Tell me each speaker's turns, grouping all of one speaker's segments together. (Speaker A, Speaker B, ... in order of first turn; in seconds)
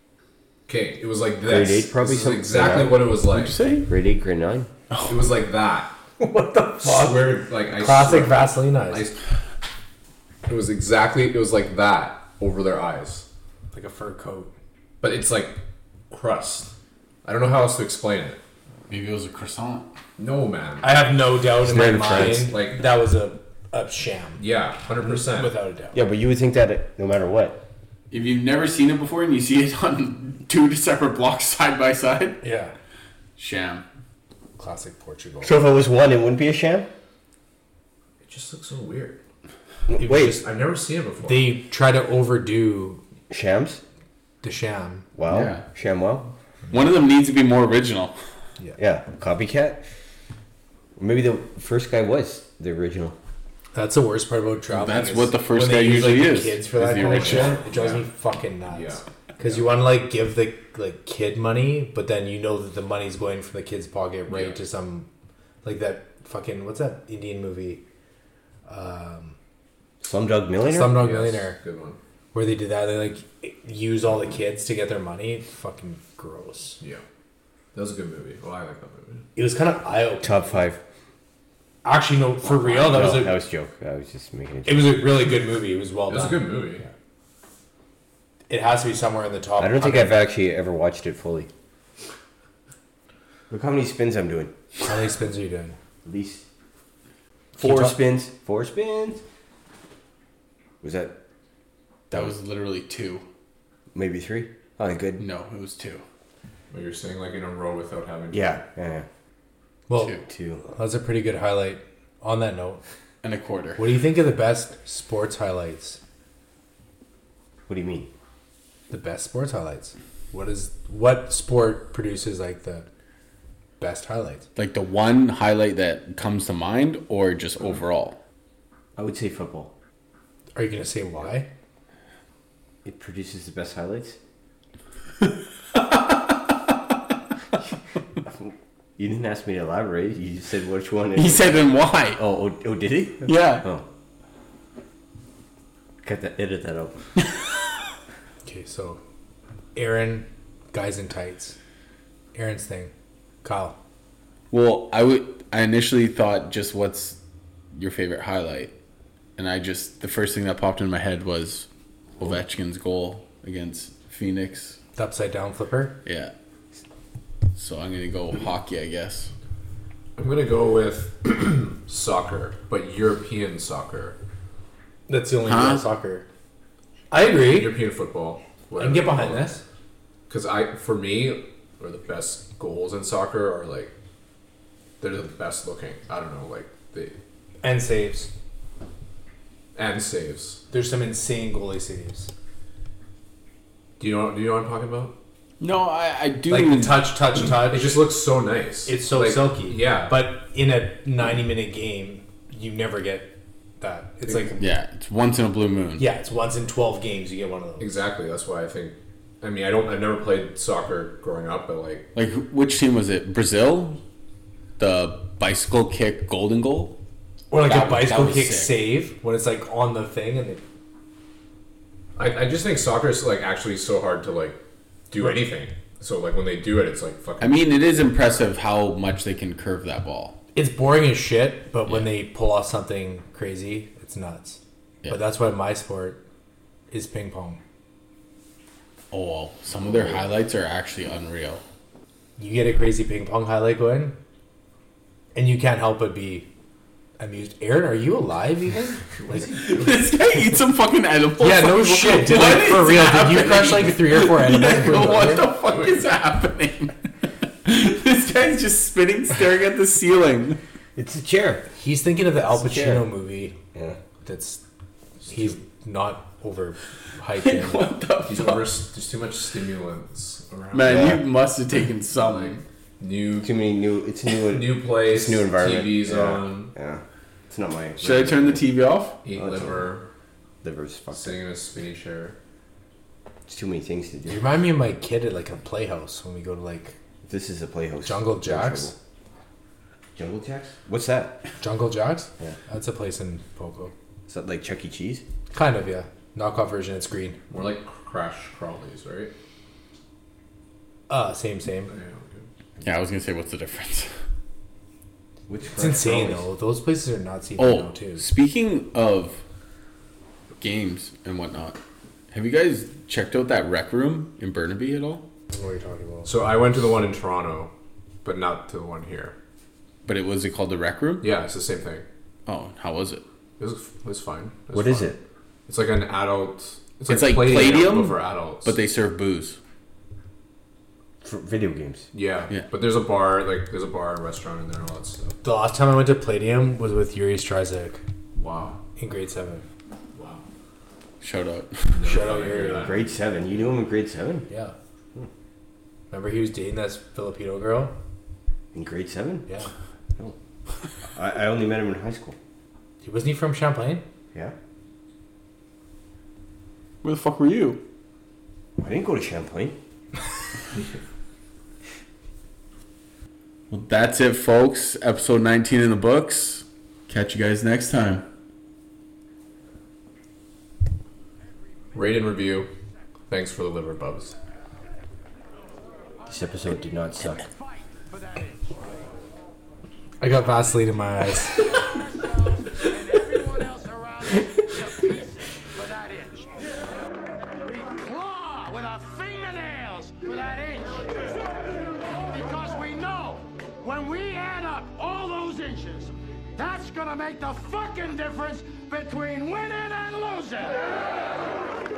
Speaker A: 0.7-3.6, 5.0-5.9, 6.8-9.2, 10.4-13.2, 15.0-16.7, 17.2-18.4, 20.2-21.0, 22.1-22.8, 24.4-25.5, 38.2-39.2, 40.2-41.5, 57.0-58.1, 58.7-59.6, 64.3-64.6, 70.8-72.0, 77.7-79.2, 86.1-86.8, 106.7-108.6, 170.2-174.2, 177.3-179.6, 180.3-183.9, 185.0-187.2, 189.7-190.6, 194.0-195.1, 197.6-200.1, 204.3-204.5, 207.8-212.1, 222.2-224.6, 225.1-227.6, 249.3-249.8, 255.7-256.0, 268.2-271.1, 272.1-273.5, 274.4-276.7, 279.2-280.1, 281.1-282.4, 297.5-299.3, 301.9-302.4, 316.2-317.7, 318.2-319.3, 321.2-322.1, 323.6-325.1, 325.7-328.8, 332.1-335.4, 338.3-338.8, 340.1-340.4, 341.9-343.1, 371.9-372.7, 373.3-374.4
Speaker B: 1.4-3.1, 3.9-4.7, 21.6-22.5, 25.9-27.6, 35.4-36.9, 39.9-40.4, 43.3-43.8, 45.1-46.3, 48.8-49.8, 51.0-53.1, 70.0-71.0, 80.2-80.8, 82.4-85.0, 89.6-91.5, 93.5-94.5, 96.0-96.4, 97.6-99.2, 100.8-101.2, 102.1-102.3, 103.9-105.2, 108.3-109.1, 110.2-110.6, 117.7-118.1, 128.9-129.7, 132.8-134.2, 138.2-143.8, 146.0-147.0, 260.9-261.7, 262.5-263.1, 270.8-271.2, 273.4-278.6, 279.3-279.9, 280.6-281.4, 283.5-284.4, 287.2-288.9, 290.1-291.4, 294.3-295.2, 305.5-306.4, 324.7-325.2, 331.2-332.1, 342.5-344.5, 348.7-349.5, 351.1-352.4, 358.8-359.8, 376.2-377.4
Speaker C: 3.3-3.9, 18.9-19.9, 28.1-32.4, 33.4-33.8, 45.2-45.6, 46.7-48.2, 54.7-57.6, 102.1-103.2, 105.2-106.0, 109.9-110.2, 113.2-113.9, 124.5-128.2, 141.1-142.2, 143.2-143.7, 154.5-157.2, 157.7-158.7, 159.4-161.7, 162.2-164.8, 166.0-166.3, 167.6-169.3, 175.4-175.8, 195.6-197.1, 204.6-206.1, 212.1-214.0, 214.8-216.9, 217.6-218.8, 227.4-230.4, 239.1-241.6, 249.4-256.9, 257.6-260.6, 267.4-268.7, 270.7-272.6, 278.0-279.2, 302.8-304.1, 307.6-309.4, 310.6-311.8, 312.3-315.2, 320.1-321.3, 322.5-323.2, 327.1-329.6, 341.2-342.0, 357.0-357.8, 363.7-368.2
Speaker D: 6.2-9.1, 13.7-14.5, 20.8-24.4, 25.1-26.0, 32.4-32.7, 34.6-35.5, 40.0-40.5, 41.2-43.0, 44.4-45.1, 53.7-65.1, 65.6-67.8, 68.7-69.3, 70.6-71.6, 72.3-76.8, 79.3-80.6, 81.8-83.4, 84.6-86.9, 88.5-90.2, 94.8-95.8, 97.6-97.9, 109.9-112.8, 113.8-116.0, 118.9-122.9, 123.8-124.5, 130.6-131.5, 148.4-149.0, 149.7-151.6, 152.3-152.9, 153.4-153.8, 164.9-166.0, 175.1-176.2, 177.1-177.7, 178.8-179.6, 187.6-188.3, 190.7-192.3, 196.5-198.1, 198.8-204.6, 206.0-207.9, 217.5-220.6, 230.5-236.2, 236.9-237.6, 242.4-244.2, 245.3-246.5, 247.2-249.4, 251.4-255.5, 261.8-263.6, 264.2-264.6, 265.2-267.9, 284.3-286.9, 288.0-288.9, 291.6-293.9, 295.5-297.4, 301.1-301.9, 305.8-308.2, 315.5-316.3, 335.4-338.0, 339.0-339.6, 342.0-342.9, 344.5-344.7, 346.1-347.9, 353.0-354.0, 380.2-381.6
Speaker E: 377.3-378.8, 381.9-386.6, 387.7-391.3, 392.0-400.9